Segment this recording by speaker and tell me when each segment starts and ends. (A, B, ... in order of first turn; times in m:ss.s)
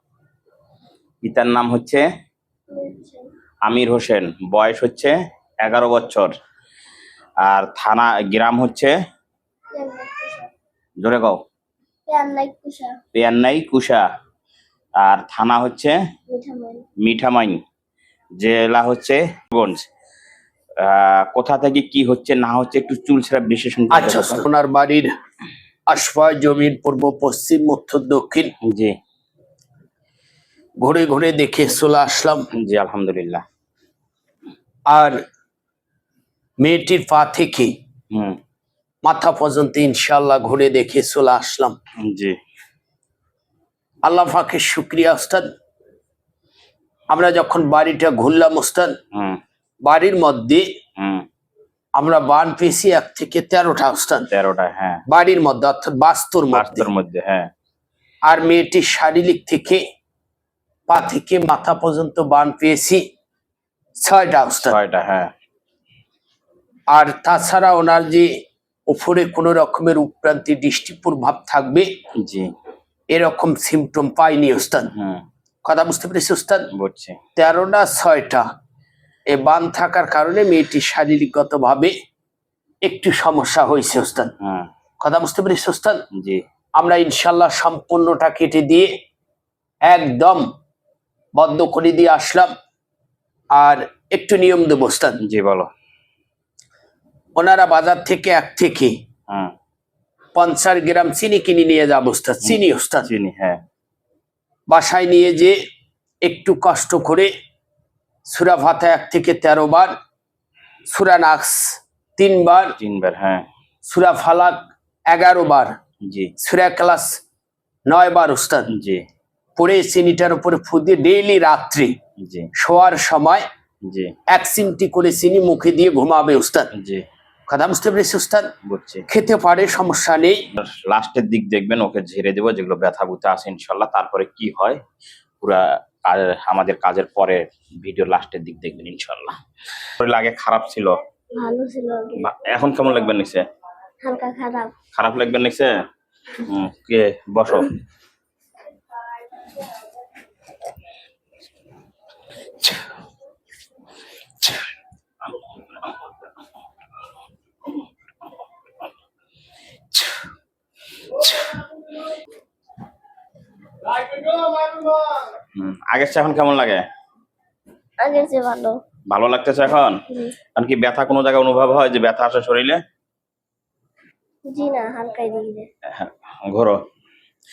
0:01.2-0:02.0 A
0:02.7-0:03.3 B
0:03.6-0:06.3 A
0:07.4-0:08.9 A
0:09.7-0:10.5 B
0:11.0-0:11.4 A
0:12.1-0:13.0 B
0:13.1-0:14.0 A
0:15.0-0:16.0 A
0:16.3-0:16.8 B
0:17.0-0:17.6 A
0:18.4-0:19.9 A
0:20.8-0:24.4 A
0:23.9-0:25.1 C
0:25.9-0:28.5 C
0:28.6-0:29.0 A
0:30.8-0:32.4 C
0:32.6-0:33.4 A
0:34.9-0:35.2 C
0:36.6-0:37.7 C
0:38.1-0:38.4 A
0:39.0-0:41.8 C
0:42.0-0:42.4 A
0:44.0-0:45.5 C
0:47.1-0:48.9 C
0:49.1-0:49.4 A
0:49.8-0:50.6 C
0:51.0-0:51.2 A
0:52.0-0:54.3 C
0:54.3-0:55.0 A
0:55.1-0:56.9 C
0:56.5-0:57.5 A
0:58.2-0:59.8 C
1:00.9-1:03.0 C
1:04.0-1:04.8 C
1:04.5-1:05.3 A
1:06.9-1:08.3 C
1:08.9-1:11.9 C
1:12.2-1:12.5 A
1:13.1-1:14.9 C
1:14.9-1:15.2 A
1:15.6-1:16.7 C
1:16.7-1:17.2 A
1:17.4-1:18.4 C
1:19.3-1:21.9 C
1:22.8-1:24.3 C
1:24.4-1:24.7 A
1:25.0-1:26.0 C
1:26.1-1:26.4 A
1:26.8-1:28.9 C
1:29.9-1:30.4 C
1:31.4-1:32.5 C
1:33.5-1:35.2 C
1:35.2-1:35.7 A
1:37.4-1:38.9 C
1:39.3-1:39.5 A
1:40.4-1:43.1 C
1:42.4-1:43.6 A
1:44.7-1:45.6 C
1:46.2-1:47.3 C
1:48.2-1:49.9 C
1:50.9-1:52.7 C
1:52.8-1:53.4 A
1:53.8-1:55.7 C
1:56.0-1:56.3 A
1:56.4-1:57.2 C
1:57.9-1:58.7 C
1:58.7-1:59.0 A
1:59.6-2:01.9 C
2:02.2-2:02.5 A
2:02.6-2:03.4 C
2:03.8-2:04.1 A
2:04.3-2:06.7 C
2:06.7-2:07.0 A
2:07.5-2:08.5 C
2:08.6-2:09.0 A
2:09.1-2:10.4 C
2:10.6-2:14.8 A
2:15.4-2:19.4 A
2:20.0-2:21.0 A
2:21.3-2:22.2 B
2:22.2-2:23.4 A
2:24.0-2:24.7 B
2:24.9-2:25.7 A
2:26.4-2:27.8 A
2:45.5-2:46.8 A
2:48.0-2:48.8 B
2:49.1-2:50.0 A
2:50.6-2:52.8 A
2:54.5-2:55.7 B
2:55.9-2:56.8 A